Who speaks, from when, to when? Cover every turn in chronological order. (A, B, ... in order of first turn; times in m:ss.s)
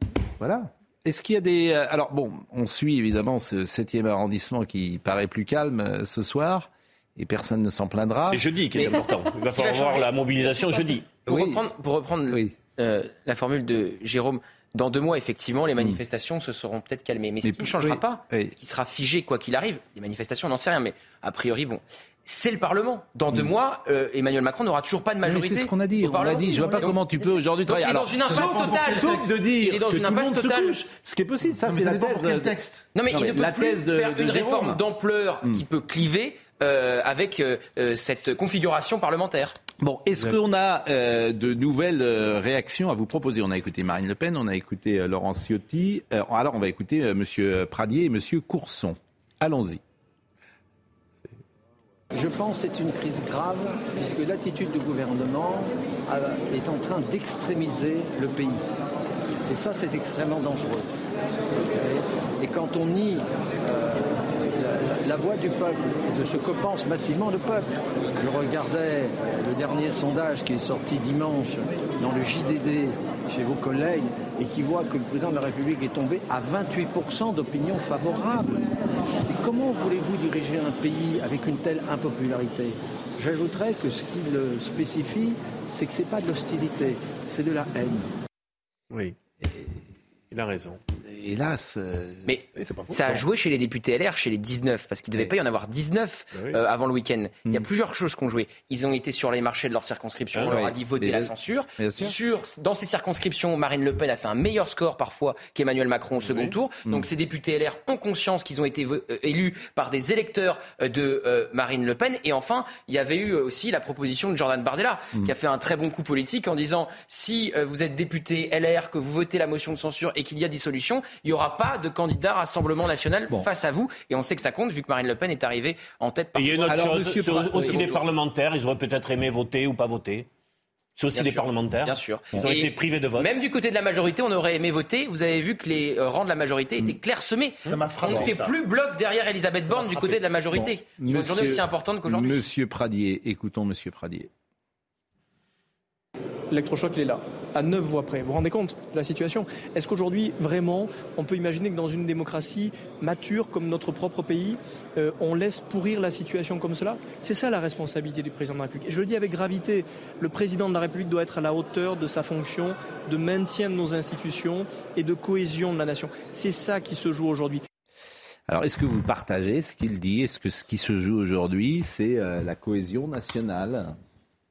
0:00.4-0:08.4 A
0:08.3-0:11.2 B
0:08.8-0:10.1 C
0:11.3-0:11.6 A
0:11.3-0:27.0 C
0:12.3-0:12.6 A
0:17.4-0:18.6 A
0:25.2-0:32.6 A
0:27.6-0:30.8 C
0:28.3-0:29.2 D
0:31.5-0:32.9 D
0:33.0-0:39.6 C
0:33.1-0:34.8 A
0:39.8-0:49.8 A
0:52.1-0:58.6 E
0:59.5-1:00.9 E
1:01.7-1:28.1 E
1:29.4-1:29.7 A
1:30.3-1:30.8 B
1:31.0-1:33.2 A
1:32.3-2:07.0 C
1:32.6-1:32.9 D
1:40.3-1:40.6 B
1:40.5-1:42.2 A
1:46.2-1:46.6 B
2:06.4-2:10.3 B
2:06.7-2:08.0 A
2:07.6-2:08.1 C
2:11.0-2:13.4 B
2:11.1-2:22.4 C
2:17.7-2:18.6 D
2:19.7-2:20.2 D
2:20.5-2:24.3 A
2:26.5-2:47.6 F
2:48.5-2:54.0 A